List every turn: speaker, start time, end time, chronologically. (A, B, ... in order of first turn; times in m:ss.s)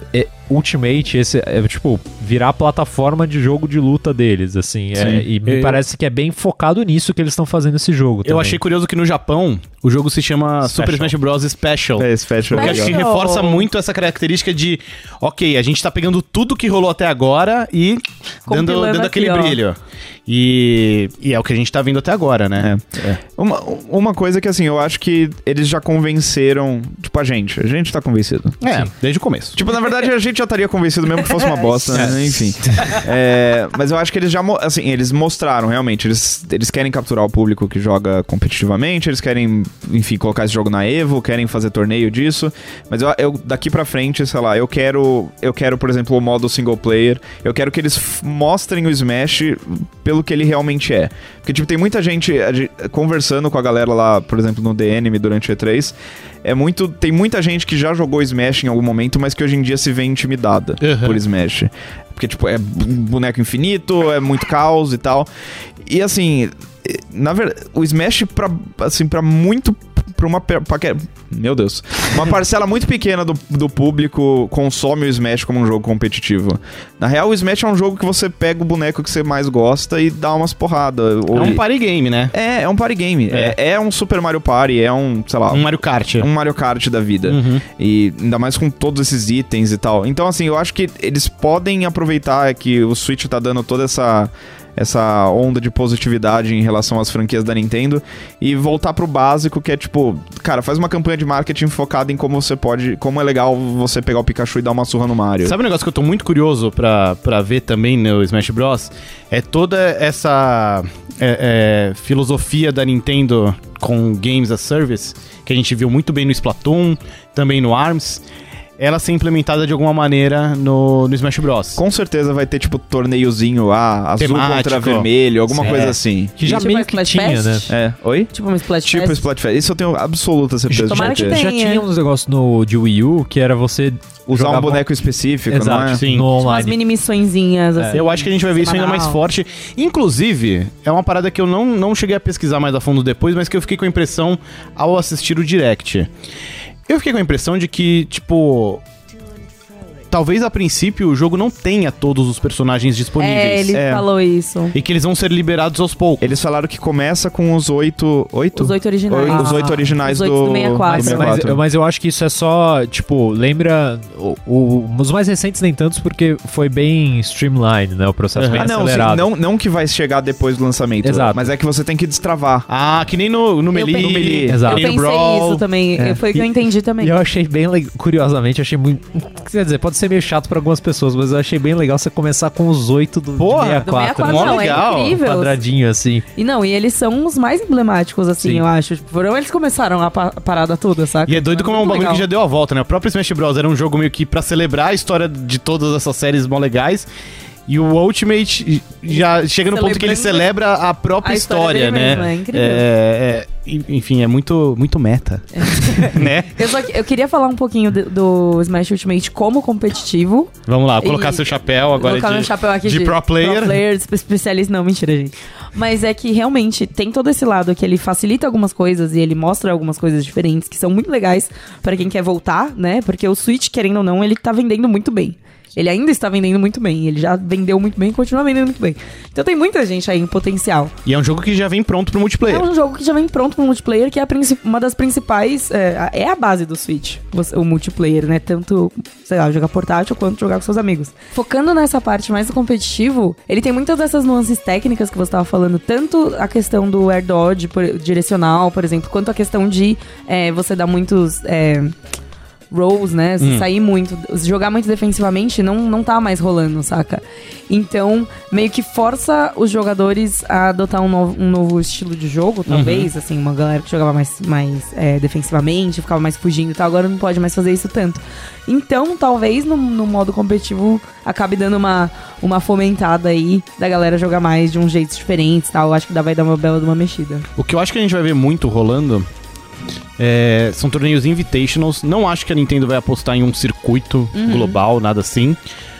0:00.1-0:08.6 A
0:04.9-0:05.2 B
0:05.4-0:05.8 C
0:08.2-0:23.2 C
0:10.7-0:11.1 A
0:12.0-0:13.0 B
0:12.5-0:13.7 D
0:18.5-0:19.6 D
0:22.6-0:28.6 B
0:28.6-0:29.6 C
0:29.5-1:05.3 B
0:31.9-0:32.2 A
0:31.9-0:32.8 C
1:00.8-1:01.2 C
1:05.8-1:21.6 B
1:21.3-1:22.3 C
1:22.3-1:45.6 B
1:25.5-1:26.3 C
1:27.3-1:27.6 C
1:45.4-1:58.2 C
1:58.8-2:01.8 C
2:01.8-2:06.4 B
2:04.2-2:06.0 C
2:05.5-2:07.7 A
2:06.4-2:07.7 D
2:07.7-2:08.3 B
2:08.3-2:09.2 D
2:08.8-2:11.4 B
2:10.7-2:14.8 A
2:10.7-2:11.8 D
2:14.3-2:16.0 B
2:15.5-2:16.8 A
2:15.9-2:16.3 C
2:16.4-2:19.2 D
2:17.9-2:26.1 C
2:26.9-2:28.8 C
2:30.1-2:33.8 C
2:33.2-2:34.8 D
2:33.7-2:34.1 B
2:34.7-2:36.3 C
2:36.2-2:41.6 B
2:38.5-2:41.3 D
2:40.8-2:49.3 A
2:48.4-2:48.7 C
2:48.5-2:52.7 B
2:51.0-2:51.5 A
2:52.7-2:55.6 C
2:53.7-2:57.2 D
2:53.9-2:54.7 B
2:54.4-2:54.9 A
2:56.0-3:06.2 A
3:03.4-3:05.2 C
3:03.8-3:05.6 D
3:06.4-3:12.2 D
3:11.3-3:17.1 C
3:17.7-3:26.7 C
3:19.1-3:20.5 D
3:21.2-3:22.9 D
3:25.5-3:50.9 D
3:30.7-3:33.8 C
3:51.0-3:52.7 C
3:52.5-4:11.9 D
4:12.7-4:37.4 D
4:13.4-4:13.6 C
4:22.7-4:23.1 C
4:37.6-4:39.3 C
4:40.2-4:45.6 C
4:44.3-4:44.8 D